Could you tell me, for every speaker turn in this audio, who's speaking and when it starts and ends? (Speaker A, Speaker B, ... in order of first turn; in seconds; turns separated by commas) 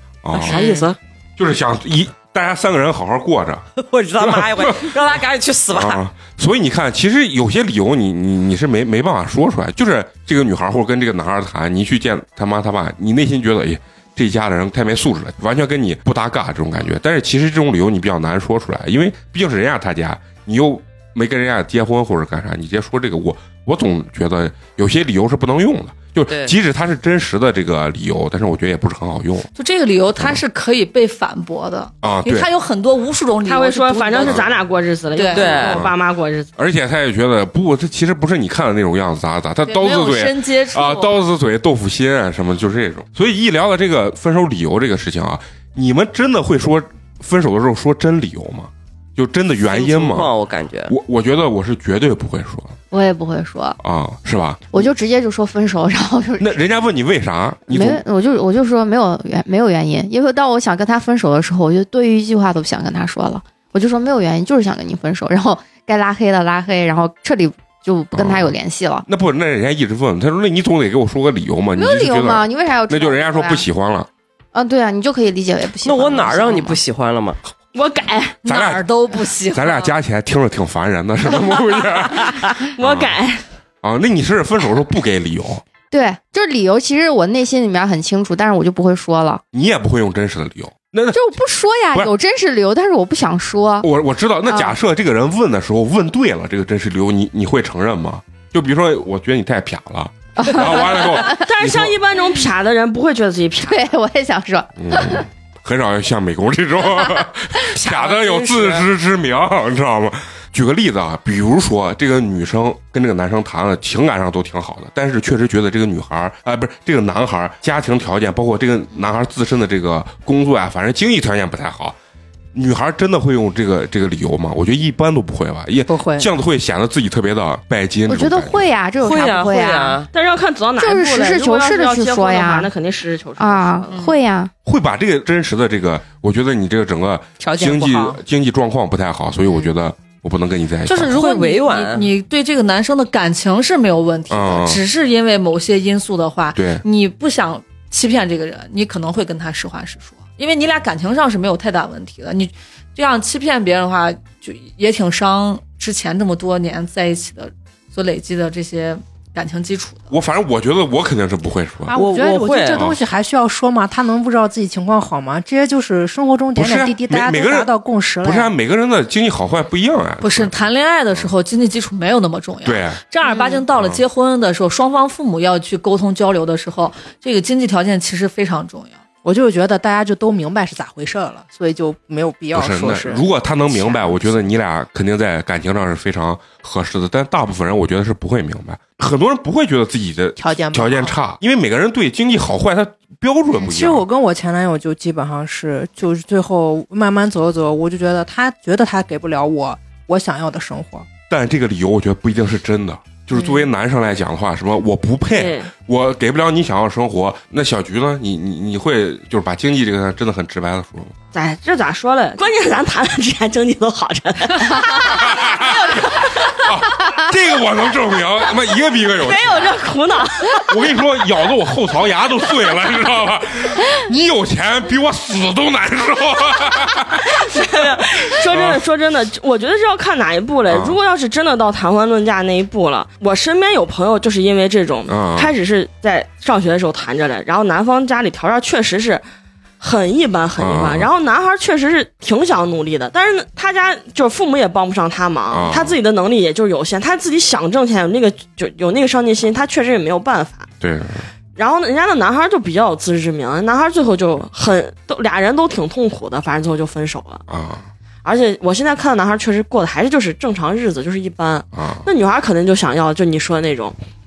Speaker A: 0.2-0.6, Speaker B: 0.3-1.0, Speaker A: 1.4-3.6, Speaker B: 3.8-6.0, Speaker A: 4.2-4.9, Speaker A: 5.7-29.5, Speaker B: 26.3-26.5, Speaker C: 29.6-34.5, Speaker A: 32.0-32.5, Speaker D: 33.5-36.5, Speaker A: 34.2-34.5, Speaker C: 35.1-35.6, Speaker B: 35.3-35.8, Speaker A: 35.6-35.9, Speaker A: 36.6-50.3, Speaker C: 39.6-41.2, Speaker B: 49.7-50.9, Speaker A: 50.9-52.8, Speaker E: 52.9-53.8, Speaker A: 53.8-54.9, Speaker E: 54.7-56.6, Speaker A: 56.4-58.0, Speaker E: 57.7-69.0, Speaker A: 68.1-68.5, Speaker A: 69.1-74.1, Speaker E: 71.8-73.6, Speaker E: 74.5-76.8, Speaker B: 75.8-77.4, Speaker D: 77.8-78.4, Speaker A: 78.4-78.9, Speaker C: 78.4-79.9, Speaker A: 79.5-83.2, Speaker D: 82.8-83.4, Speaker A: 83.8-85.6, Speaker E: 85.9-89.4, Speaker A: 89.5-91.3, Speaker E: 91.1-93.9, Speaker A: 93.8-102.0, Speaker E: 94.5-94.8, Speaker E: 100.4-101.3, Speaker D: 101.0-103.9, Speaker E: 103.7-105.2, Speaker A: 104.8-122.0, Speaker B: 107.8-108.8, Speaker A: 122.5-128.7, Speaker F: 125.9-126.3, Speaker E: 128.1-130.0, Speaker B: 129.0-130.1, Speaker D: 130.1-134.0, Speaker E: 130.8-132.7, Speaker E: 133.4-134.5, Speaker A: 134.7-141.1, Speaker F: 137.4-138.2, Speaker C: 140.9-160.1, Speaker B: 141.1-142.1, Speaker A: 144.3-144.8, Speaker A: 146.6-146.8, Speaker A: 160.1-161.9, Speaker F: 161.9-168.5, Speaker B: 161.9-162.8, Speaker A: 162.7-163.0, Speaker A: 166.6-170.6, Speaker C: 170.2-179.0, Speaker A: 172.7-173.0, Speaker E: 173.2-173.6, Speaker A: 173.7-174.0, Speaker F: 179.2-184.5, Speaker A: 182.5-194.1, Speaker F: 190.4-191.1, Speaker F: 193.6-201.1, Speaker A: 201.3-211.1, Speaker F: 203.3-203.7, Speaker D: 205.3-205.7, Speaker D: 211.3-216.5, Speaker A: 215.0-219.8, Speaker D: 219.1-220.9, Speaker A: 220.7-228.8, Speaker D: 227.3-239.2, Speaker A: 230.7-231.0, Speaker A: 235.1-235.5, Speaker D: 239.8-250.7, Speaker A: 240.6-241.1, Speaker A: 245.5-246.0, Speaker A: 250.8-251.3, Speaker D: 251.6-257.4, Speaker A: 257.5-257.9, Speaker D: 258.2-264.0, Speaker A: 261.7-262.1